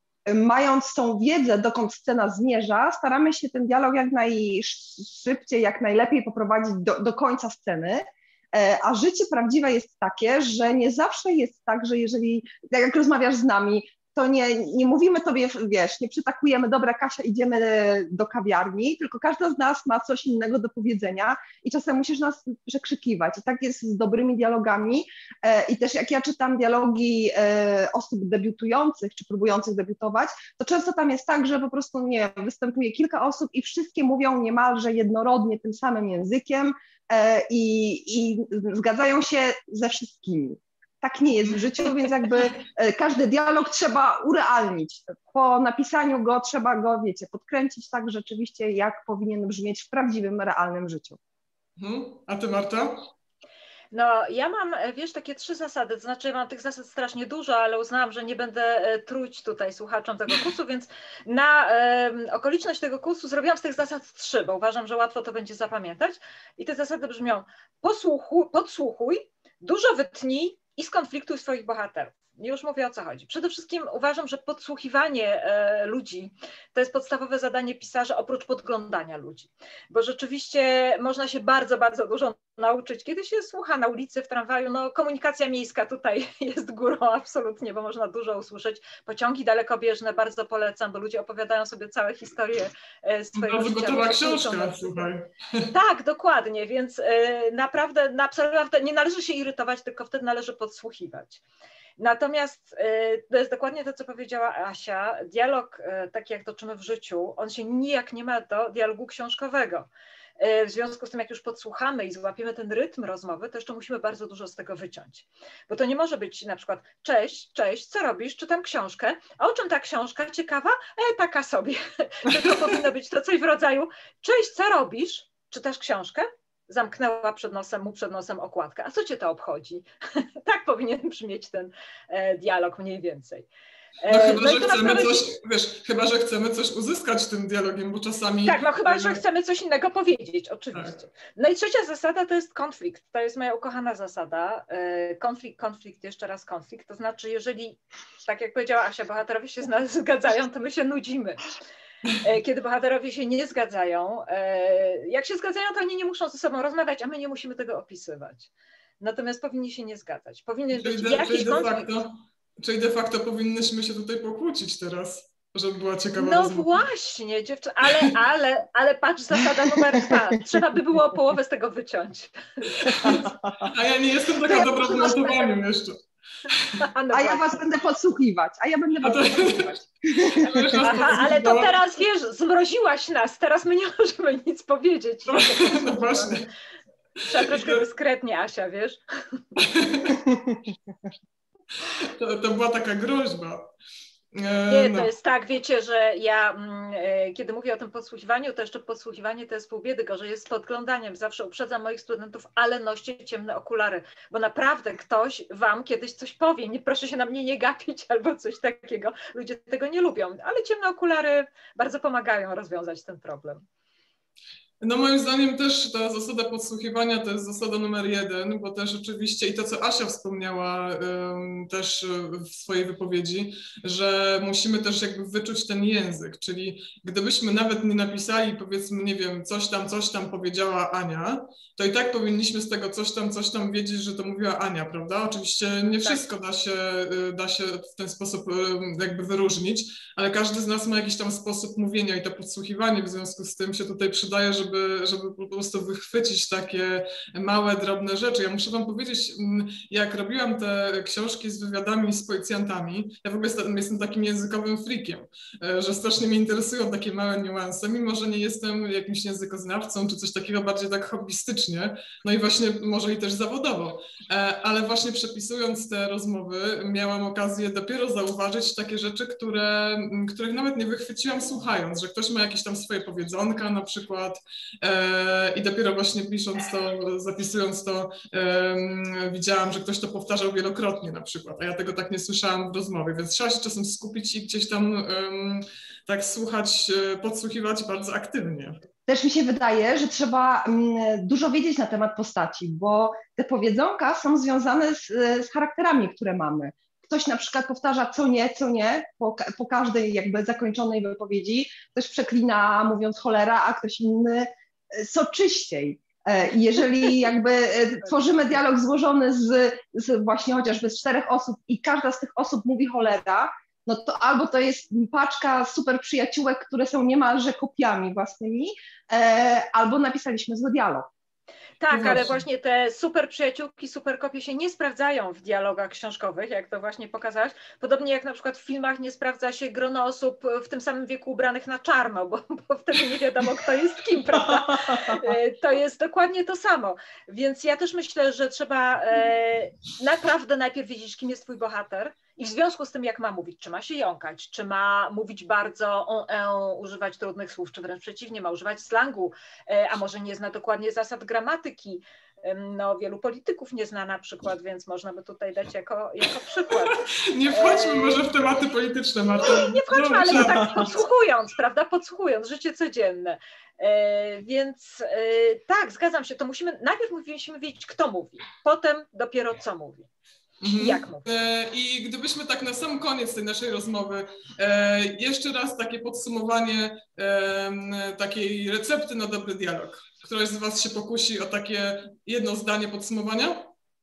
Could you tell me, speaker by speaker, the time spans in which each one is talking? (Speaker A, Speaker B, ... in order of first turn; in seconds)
Speaker A: 0.3-51.2, 174.4-175.2, 177.1-180.7, 289.1-321.1
Speaker B: 51.8-53.1, 93.3-95.7, 134.1-139.2, 140.7-141.0, 160.7-166.8, 172.8-176.0, 176.5-176.8, 179.0-179.7, 180.3-181.7, 185.3-186.4, 187.4-187.8, 189.7-190.2, 191.9-193.7, 194.3-195.1, 214.8-288.8, 321.9-322.4, 356.8-360.9, 370.6-383.7
Speaker C: 53.9-95.1, 95.7-101.4, 102.0-133.5, 134.0-135.3, 138.4-151.5, 152.1-162.0, 166.2-173.1, 174.4-175.5, 176.8-177.6, 180.6-186.5, 187.3-189.4, 194.7-213.6, 321.8-358.3, 359.4-370.1, 370.7-371.2